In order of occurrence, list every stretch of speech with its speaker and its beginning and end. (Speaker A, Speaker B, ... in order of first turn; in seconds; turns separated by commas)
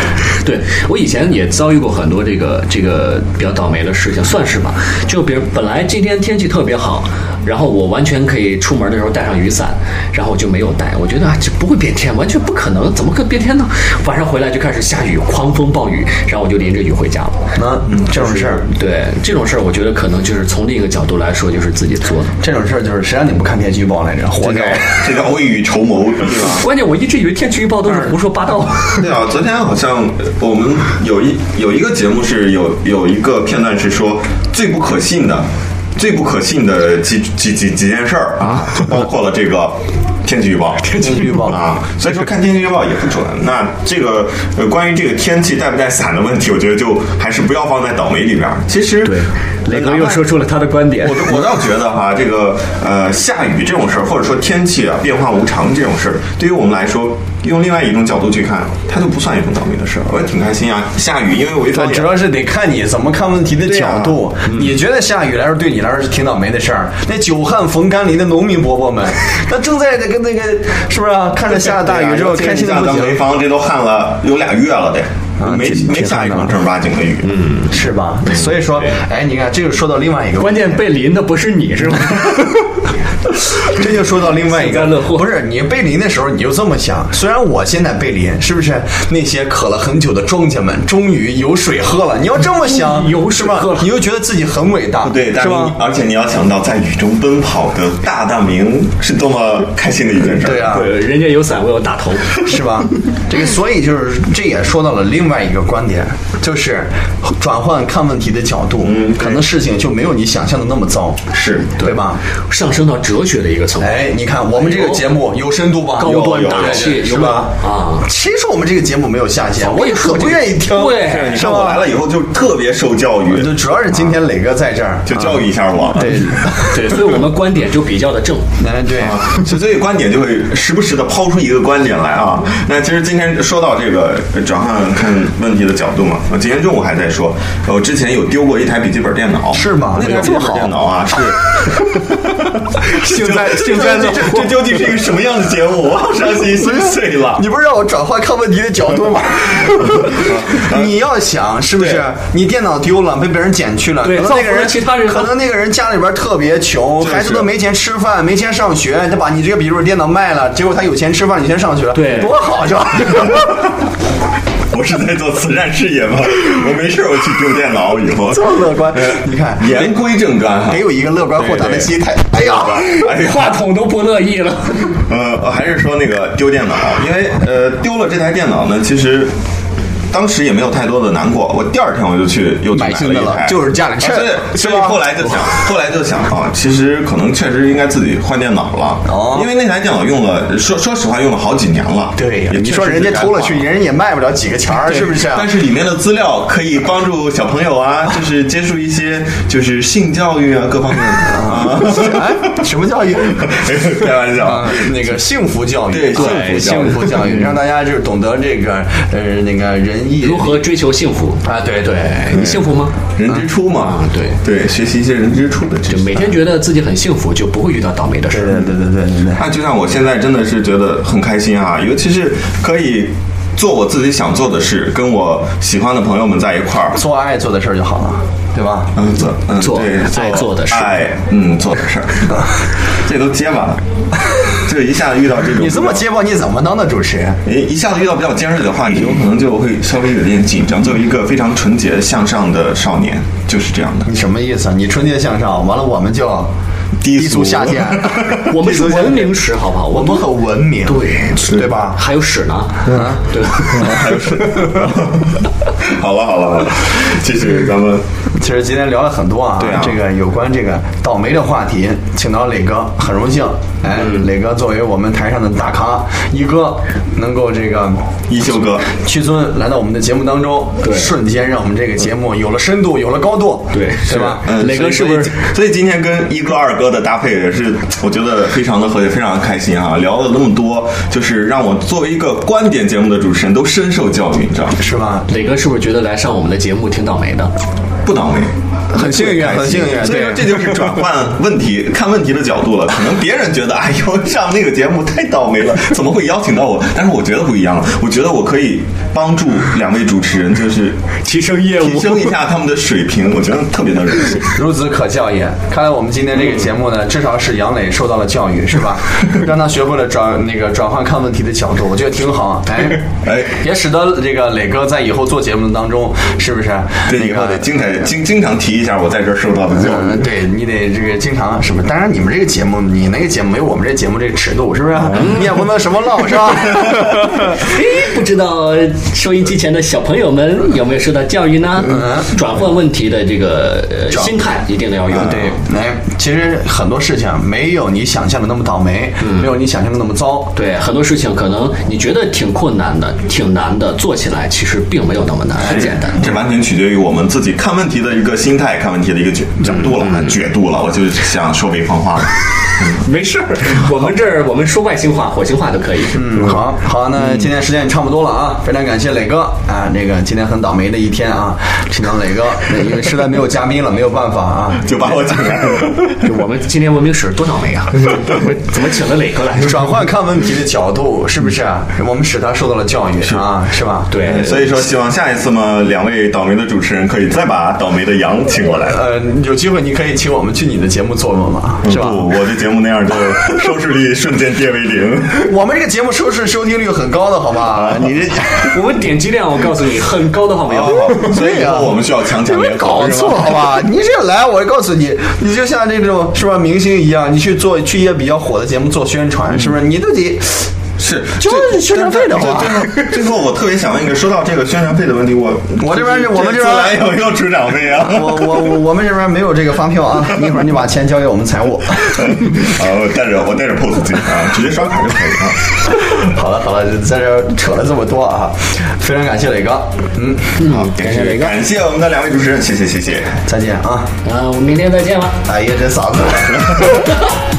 Speaker A: 0.4-17.4, Speaker B: 17.6-18.6, Speaker A: 18.1-22.4, Speaker B: 22.4-25.1, Speaker A: 24.4-24.8, Speaker C: 24.7-26.6, Speaker A: 26.4-29.1, Speaker C: 29.0-50.3, Speaker A: 40.8-41.5, Speaker B: 41.0-41.6, Speaker A: 49.0-51.4, Speaker C: 51.0-62.2, Speaker B: 61.7-73.2, Speaker C: 63.6-64.2, Speaker C: 71.5-77.3, Speaker B: 75.4-76.6, Speaker A: 77.2-77.7, Speaker B: 77.7-80.7, Speaker A: 80.4-82.7, Speaker B: 83.6-95.8, Speaker A: 84.5-85.3, Speaker A: 92.6-93.9, Speaker C: 95.0-100.8, Speaker B: 100.4-101.0, Speaker A: 100.7-102.5, Speaker B: 102.4-112.2, Speaker C: 108.8-109.4, Speaker C: 111.3-111.7, Speaker A: 111.8-115.0, Speaker B: 113.8-121.9, Speaker A: 116.0-118.1, Speaker C: 116.0-117.0, Speaker A: 119.6-121.5, Speaker C: 120.8-123.5, Speaker B: 123.3-126.9, Speaker C: 125.0-126.4, Speaker A: 126.6-128.5, Speaker B: 128.6-129.4, Speaker C: 128.9-147.4, Speaker B: 139.5-140.8, Speaker A: 142.8-144.5, Speaker B: 142.9-144.8, Speaker B: 146.3-163.8, Speaker C: 150.0-150.9, Speaker C: 151.8-152.1, Speaker A: 154.0-155.3, Speaker C: 157.0-157.5, Speaker A: 161.9-162.3, Speaker C: 164.7-170.8, Speaker B: 168.3-170.0, Speaker B: 170.7-172.9, Speaker A: 171.4-175.0, Speaker C: 172.8-173.6, Speaker C: 175.1-179.3, Speaker C: 180.1-193.6, Speaker B: 182.7-185.6, Speaker B: 189.1-189.5, Speaker B: 192.2-195.5, Speaker C: 195.0-202.6, Speaker B: 201.1-203.7, Speaker C: 203.3-205.1, Speaker B: 204.3-210.6, Speaker C: 205.9-207.5, Speaker A: 206.1-207.3, Speaker A: 210.2-214.4, Speaker B: 211.4-212.2, Speaker C: 212.3-216.2, Speaker A: 215.9-218.7, Speaker B: 218.3-219.4, Speaker C: 219.3-227.0, Speaker B: 226.9-228.9, Speaker C: 228.9-232.4, Speaker A: 229.6-231.0, Speaker C: 232.9-233.8, Speaker C: 234.6-236.0, Speaker B: 235.6-237.4, Speaker C: 237.4-244.1, Speaker B: 244.1-246.5, Speaker C: 247.0-248.4, Speaker B: 247.0-252.0, Speaker A: 248.3-250.3, Speaker A: 250.8-254.0, Speaker B: 252.9-253.9, Speaker C: 253.5-258.0, Speaker B: 258.3-268.1, Speaker C: 259.6-260.0, Speaker A: 263.9-264.2, Speaker C: 268.3-268.9, Speaker B: 268.9-274.9, Speaker A: 270.8-271.1, Speaker A: 273.7-275.3, Speaker C: 274.1-284.8, Speaker B: 284.8-285.3, Speaker A: 285.3-287.5, Speaker C: 288.0-301.0, Speaker B: 288.9-291.0, Speaker A: 301.2-302.4, Speaker C: 301.8-304.5, Speaker B: 304.5-317.7, Speaker C: 313.2-313.6, Speaker C: 317.1-320.3, Speaker B: 319.7-327.6, Speaker A: 327.5-335.6, Speaker B: 331.8-332.3, Speaker B: 334.1-334.4, Speaker B: 335.1-340.5, Speaker A: 340.5-346.2, Speaker C: 345.6-353.0, Speaker A: 353.0-356.3, Speaker B: 356.1-365.2, Speaker C: 364.8-366.3, Speaker A: 366.2-369.9, Speaker B: 369.5-374.1, Speaker A: 374.1-374.6, Speaker C: 374.2-379.0, Speaker B: 378.9-382.3, Speaker C: 381.8-385.5, Speaker B: 385.4-388.8, Speaker C: 387.7-388.2, Speaker A: 388.6-391.4, Speaker C: 390.7-393.7, Speaker B: 390.9-400.7, Speaker C: 401.0-408.8, Speaker B: 401.4-403.1, Speaker B: 405.8-407.1, Speaker B: 408.0-412.5, Speaker C: 412.1-415.8, Speaker B: 415.9-420.6, Speaker A: 420.6-421.5, Speaker C: 420.6-423.4, Speaker B: 423.4-424.1, Speaker A: 424.2-425.4, Speaker B: 425.4-427.2